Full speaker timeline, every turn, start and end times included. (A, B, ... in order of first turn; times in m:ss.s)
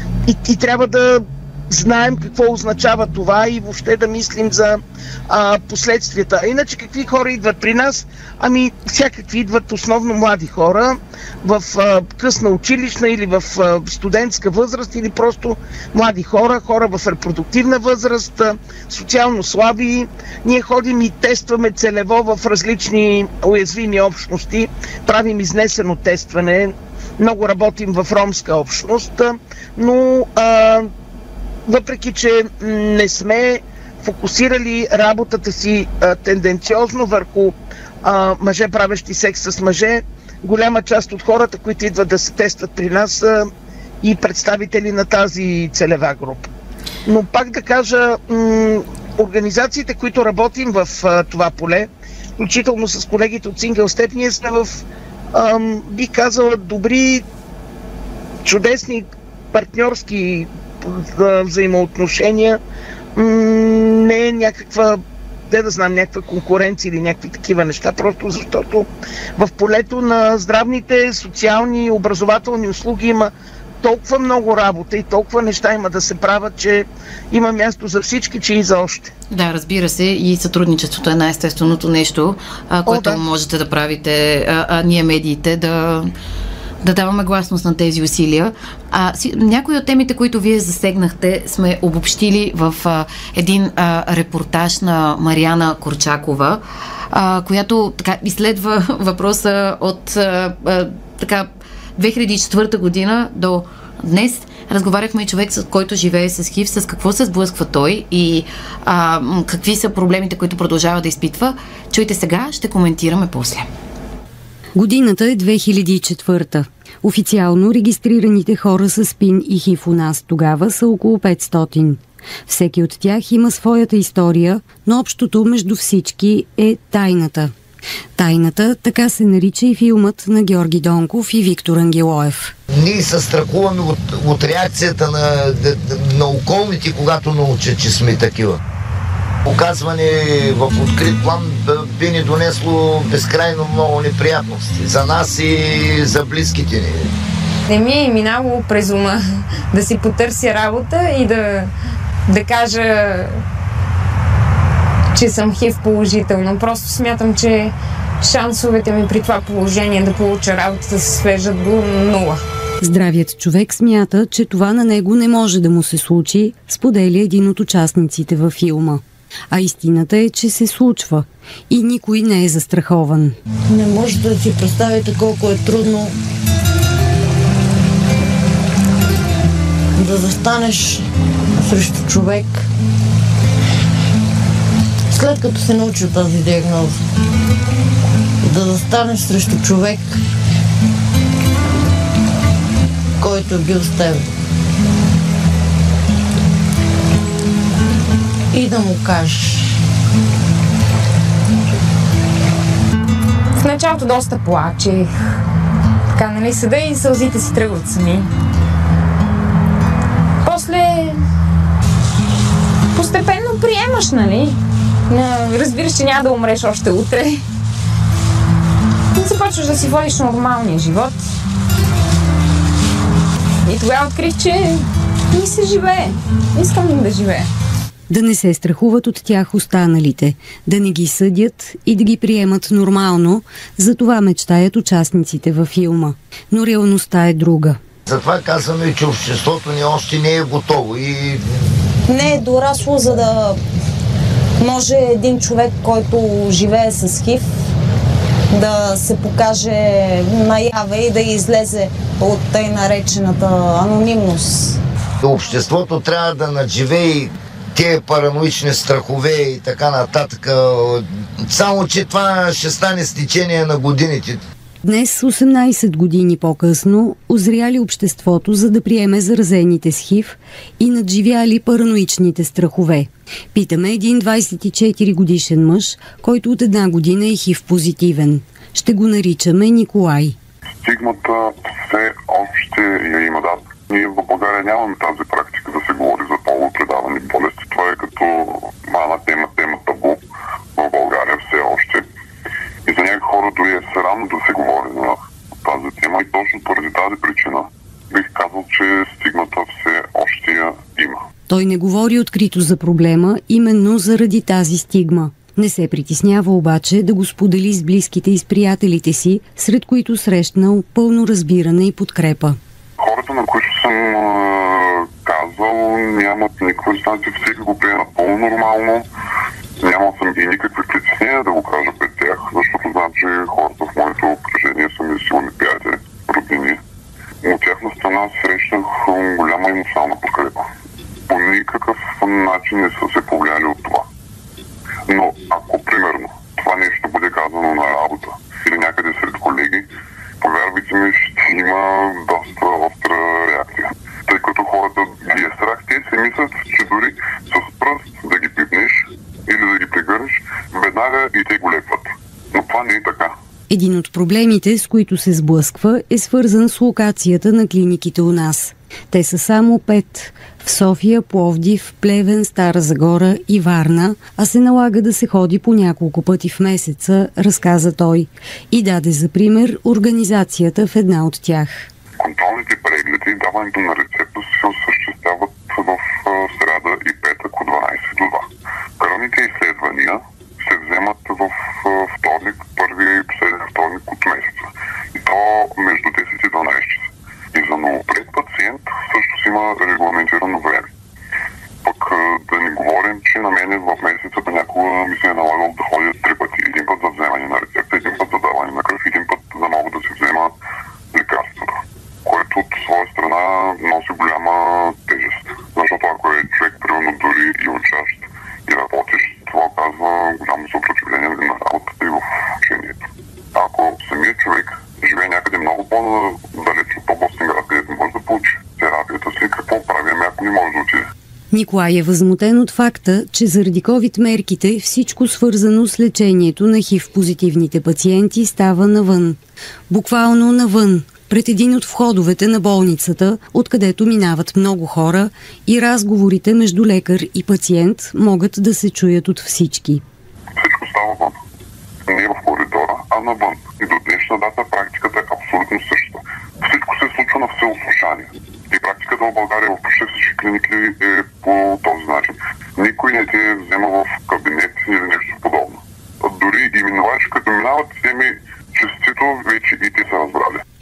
0:00.3-0:30.9 A
0:31.7-0:43.5 A
0:44.0-0:46.5 A
0:47.1-0:57.2 A
0:58.4-1:02.6 A
1:03.2-1:19.1 A
1:19.3-1:26.1 B
1:22.9-1:23.2 A
1:26.8-1:53.7 B
1:54.8-2:07.5 C
2:08.2-2:12.5 C
2:12.7-2:18.6 D
2:19.4-2:27.1 D
2:27.7-2:31.7 E
2:32.3-2:33.4 E
2:35.1-2:42.4 E
2:42.8-2:53.4 C
2:53.7-2:56.1 F
3:00.0-3:01.0 F
3:01.6-3:02.7 F
3:05.1-3:07.0 F
3:08.4-3:10.2 F
3:13.2-3:14.2 F
3:18.5-3:19.7 F
3:23.6-3:25.2 E
3:26.1-3:28.3 E
3:30.4-3:31.2 E
3:32.9-3:34.6 E
3:35.1-3:37.4 E
3:39.2-3:41.2 E
3:43.6-3:47.5 E
3:48.1-3:57.8 C
3:58.1-4:01.4 D
4:02.1-4:03.6 G
4:04.6-4:07.6 G
4:08.5-4:14.8 G
4:15.2-4:24.4 D
4:24.8-4:40.4 C
4:40.8-4:50.2 H
4:50.8-4:52.1 H
4:52.9-5:01.2 H
5:01.5-5:12.6 C
5:13.0-5:19.1 H
5:19.8-5:26.8 H
5:27.4-5:30.7 H
5:31.3-5:34.1 H
5:35.1-5:39.9 H
5:40.4-5:53.3 H
5:53.7-6:11.9 C
6:12.2-6:18.5 H
6:19.0-6:30.9 H
6:31.8-6:40.5 H
6:41.1-6:53.0 H
6:53.5-7:01.1 H
7:01.5-7:09.4 C
7:09.9-7:20.0 C
7:20.6-7:21.4 H
7:22.1-7:40.6 H